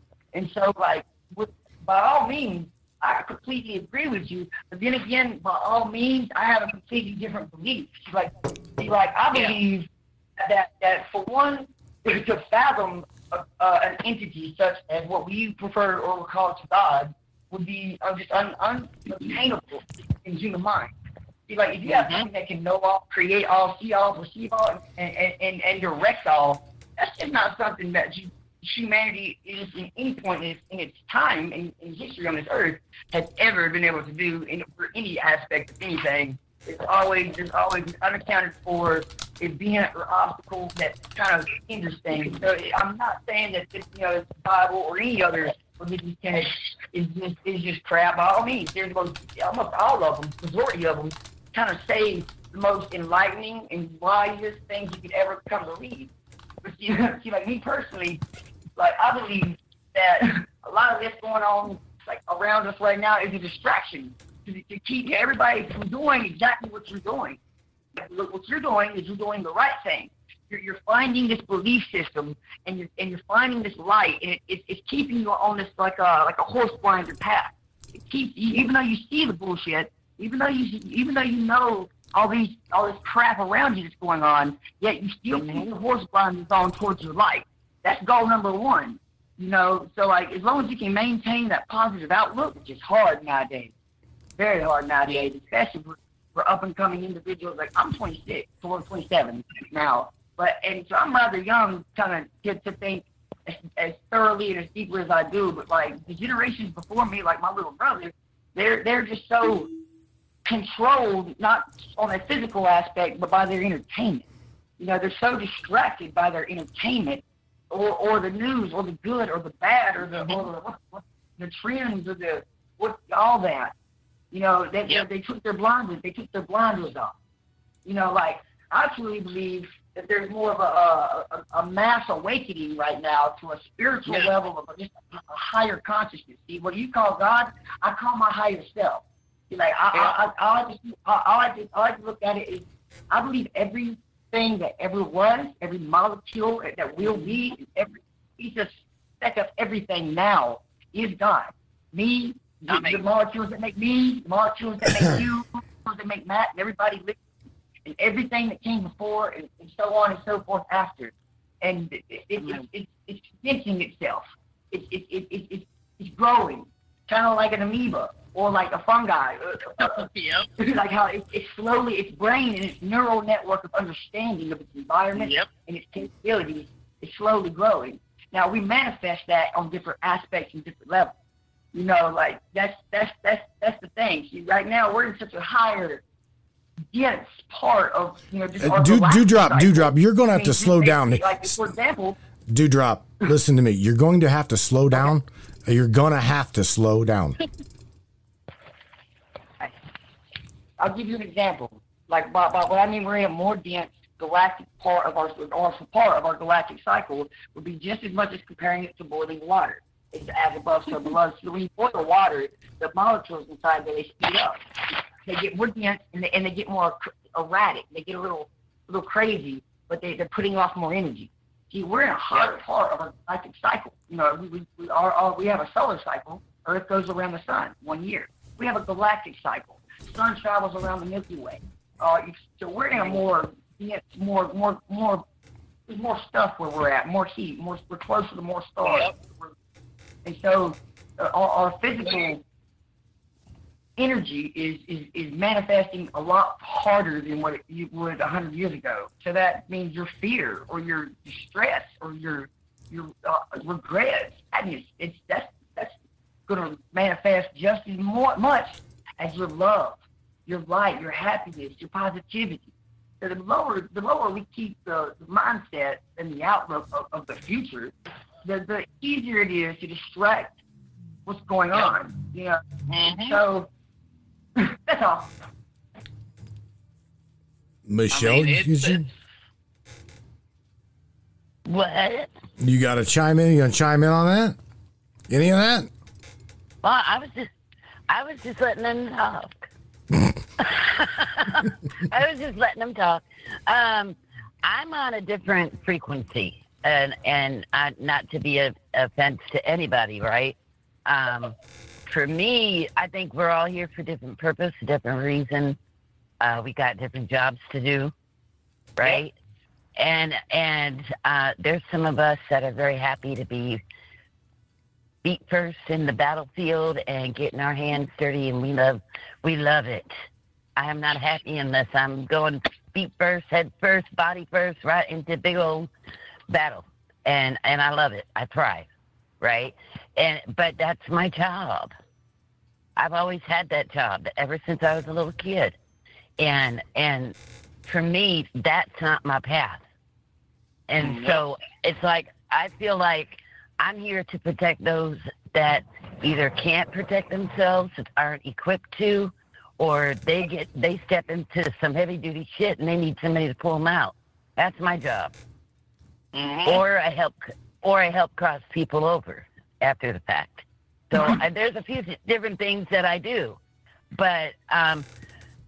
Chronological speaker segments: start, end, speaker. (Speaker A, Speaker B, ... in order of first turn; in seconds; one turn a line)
Speaker A: 0.3-20.9
Speaker B: 9.3-9.6
Speaker A: 21.5-56.1
Speaker B: 21.9-22.2
Speaker A: 56.6-58.2
Speaker A: 58.8-67.4
Speaker A: 68.0-93.7
Speaker B: 85.3-85.7
Speaker A: 94.4-109.7
Speaker A: 110.5-114.2
Speaker A: 114.8-123.7
Speaker B: 120.1-120.4
Speaker A: 124.3-127.1
Speaker A: 127.8-157.2
Speaker B: 134.1-134.3
Speaker B: 139.9-140.2
Speaker B: 152.7-153.0
Speaker A: 157.8-170.1
Speaker B: 169.8-170.5
Speaker A: 170.6-181.1
Speaker B: 175.2-175.5
Speaker A: 181.7-186.0
Speaker A: 186.9-192.2
Speaker C: 188.6-191.7
Speaker C: 192.5-197.4
Speaker A: 200.8-214.6
Speaker A: 215.2-235.2
Speaker A: 235.9-239.5
Speaker B: 238.8-239.2
Speaker A: 240.2-242.4
Speaker A: 244.0-256.0
Speaker A: 256.5-267.9
Speaker A: 268.4-270.6
Speaker A: 271.3-272.6
Speaker B: 272.9-273.4
Speaker A: 273.1-273.7
Speaker A: 274.6-275.3
Speaker C: 277.9-279.1
Speaker B: 278.1-279.1
Speaker D: 281.7-282.3
Speaker C: 282.6-284.6
Speaker C: 285.3-285.9
Speaker D: 286.8-287.5
Speaker D: 288.1-289.6
Speaker D: 290.6-300.6
Speaker D: 301.1-301.6
Speaker D: 302.1-305.8
Speaker D: 306.4-308.1
Speaker D: 309.0-309.3
Speaker D: 310.0-313.8
Speaker D: 315.2-320.1
Speaker D: 320.8-325.9
Speaker D: 326.5-328.9
Speaker D: 329.4-331.9
Speaker D: 333.0-335.8
Speaker D: 336.4-337.4
Speaker D: 337.9-339.8
Speaker D: 340.9-355.3
Speaker B: 341.0-341.4
Speaker B: 356.3-356.8
Speaker D: 356.6-363.6
Speaker D: 364.1-365.1